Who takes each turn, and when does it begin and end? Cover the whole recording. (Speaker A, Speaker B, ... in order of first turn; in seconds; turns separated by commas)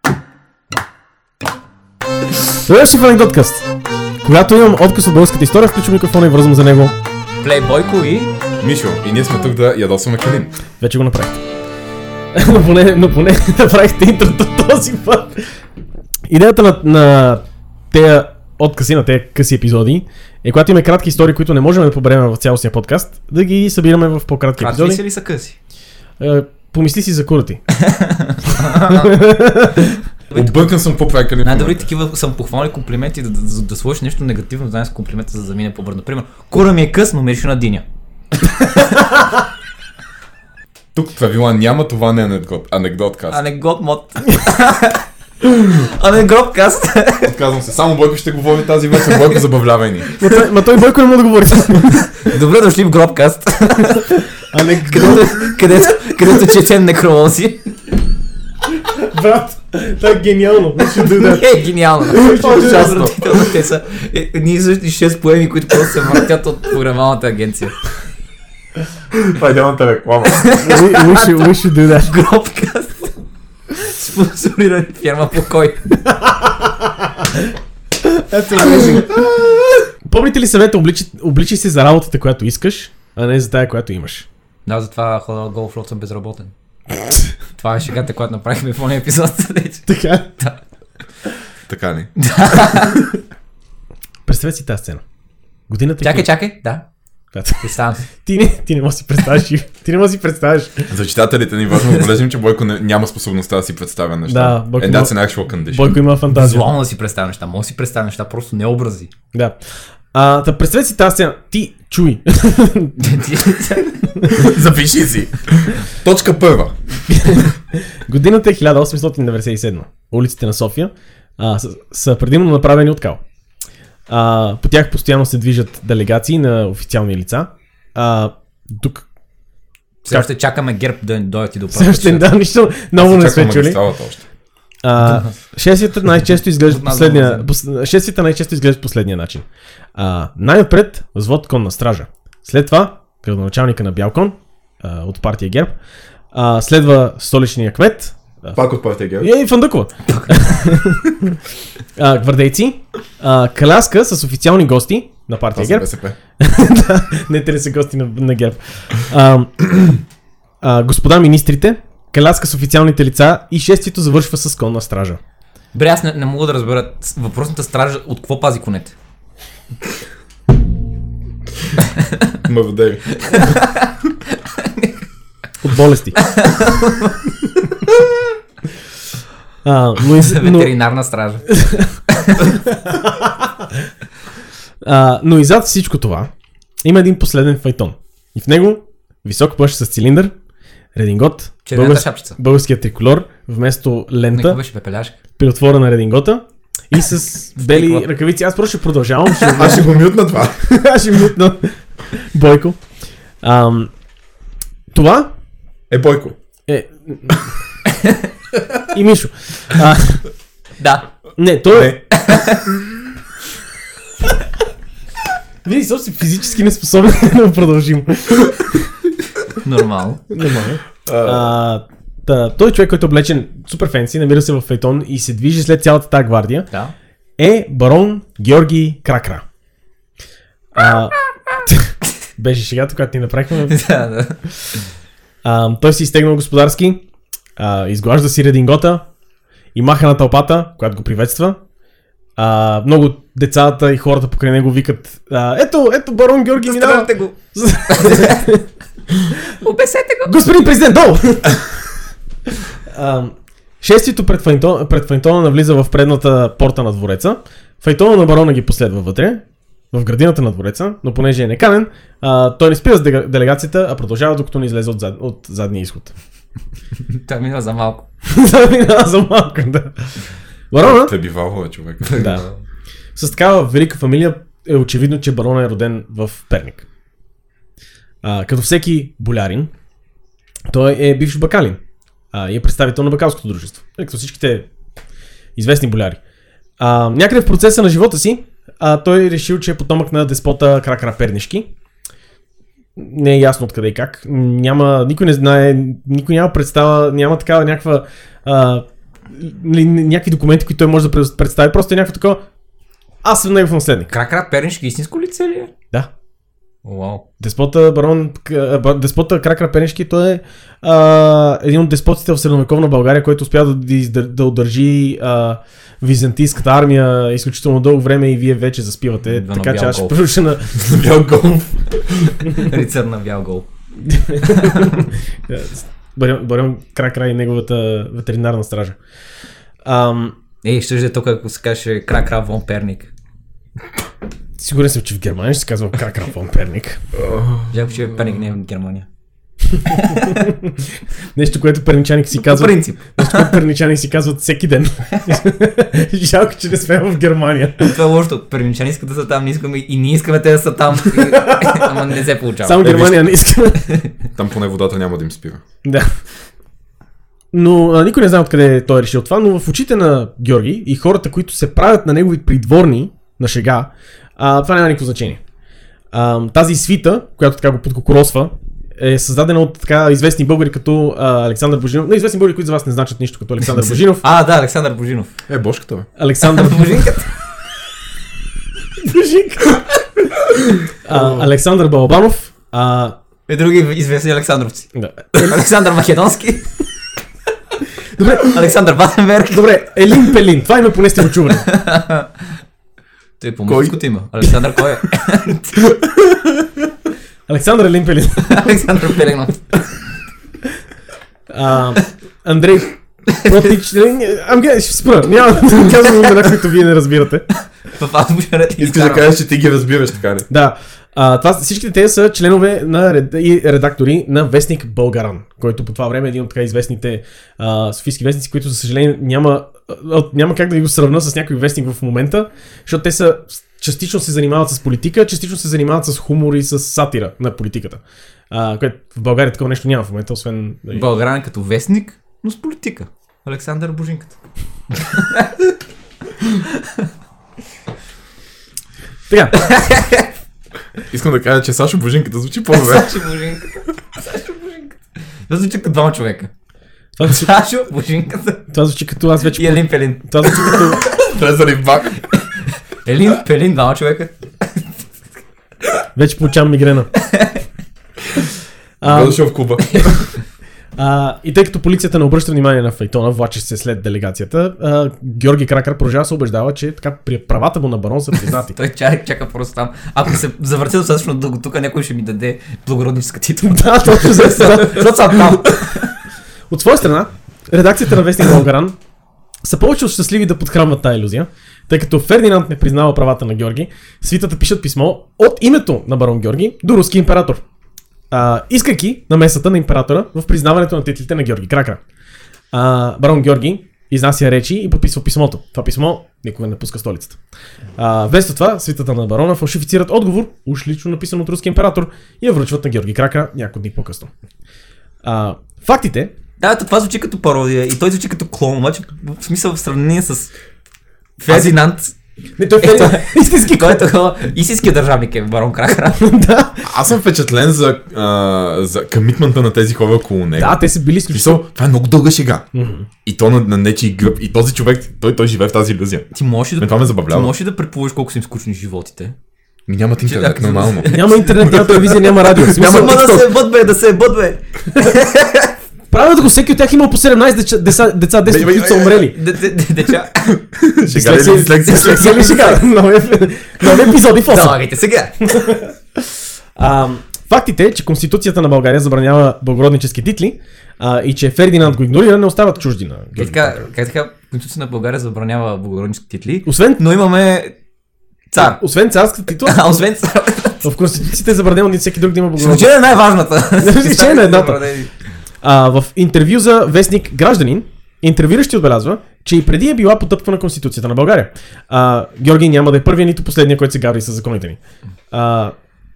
Speaker A: 2.6-3.7, Speaker A: 4.2-7.0, Speaker B: 7.4-8.3, Speaker C: 8.6-10.5, Speaker A: 10.8-11.4, Speaker A: 12.3-15.5, Speaker A: 16.3-25.0, Speaker B: 24.6-25.6, Speaker A: 26.2-27.6, Speaker B: 27.8-29.2, Speaker A: 28.5-30.0, Speaker B: 30.3-30.8, Speaker C: 30.3-31.9, Speaker B: 31.4-37.8, Speaker B: 38.4-39.1, Speaker C: 40.9-43.4, Speaker B: 43.3-47.3, Speaker C: 47.2-50.1, Speaker A: 50.2-52.1, Speaker B: 52.0-54.2, Speaker A: 54.5-55.4, Speaker B: 54.8-57.7, Speaker A: 58.9-61.5, Speaker B: 61.0-67.8, Speaker A: 62.1-63.0, Speaker C: 62.2-63.3, Speaker C: 69.1-70.5, Speaker B: 70.2-73.1, Speaker A: 70.5-72.1, Speaker B: 73.7-75.8, Speaker A: 76.0-77.5, Speaker A: 78.0-79.2, Speaker A: 80.0-84.3, Speaker B: 84.7-86.5, Speaker B: 87.6-90.6, Speaker A: 89.9-90.3, Speaker C: 91.7-92.1, Speaker B: 92.2-93.1, Speaker A: 94.2-95.0, Speaker A: 95.7-96.3, Speaker B: 96.0-96.8, Speaker A: 97.3-97.6, Speaker B: 97.6-98.0, Speaker A: 98.2-100.9, Speaker C: 100.9-106.0, Speaker A: 104.3-106.7, Speaker B: 106.3-109.1, Speaker A: 110.1-112.9, Speaker B: 113.0-114.4, Speaker A: 114.2-114.5, Speaker C: 114.3-116.8, Speaker A: 117.1-123.2, Speaker A: 124.1-129.1, Speaker B: 130.0-132.3, Speaker A: 131.7-133.8, Speaker C: 132.9-134.2, Speaker A: 134.8-139.4, Speaker B: 136.7-137.4, Speaker A: 139.9-145.7, Speaker A: 146.3-148.6, Speaker C: 148.5-149.3, Speaker A: 149.2-151.4, Speaker A: 152.0-155.9, Speaker C: 155.5-156.2, Speaker A: 156.4-160.0, Speaker A: 160.6-165.2, Speaker B: 165.7-168.9, Speaker B: 171.9-172.3, Speaker C: 172.4-173.5, Speaker B: 173.2-175.0, Speaker A: 175.6-176.2, Speaker B: 176.2-177.8, Speaker A: 179.7-180.7, Speaker B: 180.1-182.6, Speaker A: 181.5-181.9, Speaker A: 182.8-183.7, Speaker A: 184.8-186.3, Speaker A: 186.8-190.3, Speaker A: 190.9-194.6, Speaker B: 191.7-192.4, Speaker B: 194.3-195.2, Speaker A: 195.4-199.9, Speaker B: 197.6-198.0, Speaker C: 199.5-200.6, Speaker A: 200.6-202.8, Speaker A: 203.4-203.9, Speaker A: 204.9-205.3, Speaker C: 205.9-206.4, Speaker A: 206.7-207.4, Speaker B: 207.9-208.3, Speaker A: 208.9-210.2, Speaker B: 210.8-211.1, Speaker A: 211.4-212.0, Speaker C: 211.7-212.8, Speaker B: 212.1-212.7, Speaker A: 215.7-218.8, Speaker B: 219.6-220.2, Speaker A: 220.3-226.7, Speaker C: 221.1-221.5, Speaker A: 227.4-229.4, Speaker A: 230.8-233.8, Speaker B: 233.7-234.4, Speaker A: 235.4-237.0, Speaker A: 237.6-239.1, Speaker A: 239.8-241.6, Speaker A: 242.4-248.7, Speaker B: 246.6-247.3, Speaker B: 247.9-248.5, Speaker B: 249.4-250.4, Speaker A: 250.3-251.6, Speaker A: 252.9-266.1, Speaker B: 267.1-268.1, Speaker A: 268.3-270.1, Speaker A: 270.7-271.1, Speaker C: 270.8-272.4, Speaker B: 272.1-272.6, Speaker A: 272.1-272.5, Speaker A: 273.2-276.9, Speaker A: 278.2-279.7, Speaker A: 280.7-281.8, Speaker A: 282.3-284.7, Speaker A: 285.6-286.2, Speaker A: 286.8-291.7, Speaker A: 293.0-302.4, Speaker A: 303.2-304.1, Speaker B: 304.1-305.7, Speaker B: 306.8-307.2, Speaker A: 307.4-320.7, Speaker B: 319.3-320.3, Speaker C: 320.7-322.5, Speaker B: 322.5-323.7, Speaker A: 324.0-329.0, Speaker B: 324.5-325.0, Speaker A: 329.9-330.4, Speaker B: 330.6-333.1, Speaker A: 334.6-337.0, Speaker C: 337.3-337.6, Speaker B: 337.7-339.1, Speaker A: 339.7-340.8, Speaker B: 339.9-340.4, Speaker A: 341.4-348.0, Speaker B: 342.4-343.6, Speaker B: 347.8-352.9, Speaker A: 351.3-351.9, Speaker A: 352.6-353.9, Speaker C: 352.8-353.3, Speaker C: 354.4-355.6, Speaker A: 355.8-356.1, Speaker A: 357.5-365.4, Speaker A: 366.1-374.2, Speaker B: 373.7-375.3, Speaker C: 375.5-376.1, Speaker A: 376.2-377.1, Speaker B: 376.4-377.3, Speaker A: 379.0-379.8, Speaker A: 381.0-383.2, Speaker B: 383.5-386.7, Speaker A: 384.9-385.6, Speaker A: 388.2-388.6, Speaker B: 388.3-390.2, Speaker A: 389.5-391.7, Speaker B: 391.5-392.3, Speaker B: 393.4-395.9, Speaker C: 393.7-394.0, Speaker A: 397.5-398.8, Speaker B: 398.4-399.7, Speaker A: 401.5-407.5, Speaker B: 403.3-403.7, Speaker B: 407.9-409.3, Speaker C: 408.8-410.5, Speaker A: 410.5-431.1, Speaker B: 430.9-434.4, Speaker B: 435.0-435.7, Speaker B: 436.6-437.1, Speaker A: 439.3-439.6, Speaker B: 439.6-440.3, Speaker C: 441.1-443.3, Speaker B: 442.7-446.5, Speaker A: 447.2-447.5, Speaker B: 447.2-448.7, Speaker A: 448.7-451.0, Speaker B: 449.5-451.2, Speaker C: 451.0-452.3, Speaker B: 453.1-454.9, Speaker A: 456.2-457.1, Speaker B: 457.2-457.6, Speaker A: 459.0-459.4, Speaker C: 459.0-460.3, Speaker A: 461.0-468.8, Speaker B: 468.5-476.1, Speaker A: 473.7-475.1, Speaker A: 476.7-479.0, Speaker A: 479.6-487.6, Speaker A: 488.3-492.0, Speaker A: 492.7-497.4, Speaker A: 498.0-504.3, Speaker A: 505.2-506.3, Speaker B: 506.6-510.5, Speaker B: 511.4-512.1, Speaker C: 511.5-511.7, Speaker A: 512.6-514.1, Speaker B: 512.8-516.3, Speaker A: 516.1-516.9, Speaker C: 516.8-522.7, Speaker A: 520.6-521.6, Speaker A: 522.7-523.1, Speaker C: 523.2-527.5, Speaker B: 526.3-529.3, Speaker C: 529.9-532.1, Speaker B: 530.2-535.7, Speaker A: 531.1-533.5, Speaker C: 532.7-533.4, Speaker A: 536.1-539.4, Speaker C: 538.4-539.3, Speaker B: 539.2-540.6, Speaker C: 540.4-542.4, Speaker A: 541.0-544.8, Speaker B: 541.3-542.9, Speaker B: 543.8-545.7, Speaker A: 545.4-546.2, Speaker A: 546.8-553.9, Speaker B: 553.4-557.8, Speaker A: 556.6-557.0, Speaker B: 558.5-558.8, Speaker A: 558.6-559.9, Speaker B: 559.6-560.9, Speaker A: 560.8-562.9, Speaker B: 562.6-565.1, Speaker A: 563.8-564.8, Speaker A: 565.6-574.8, Speaker A: 575.3-575.8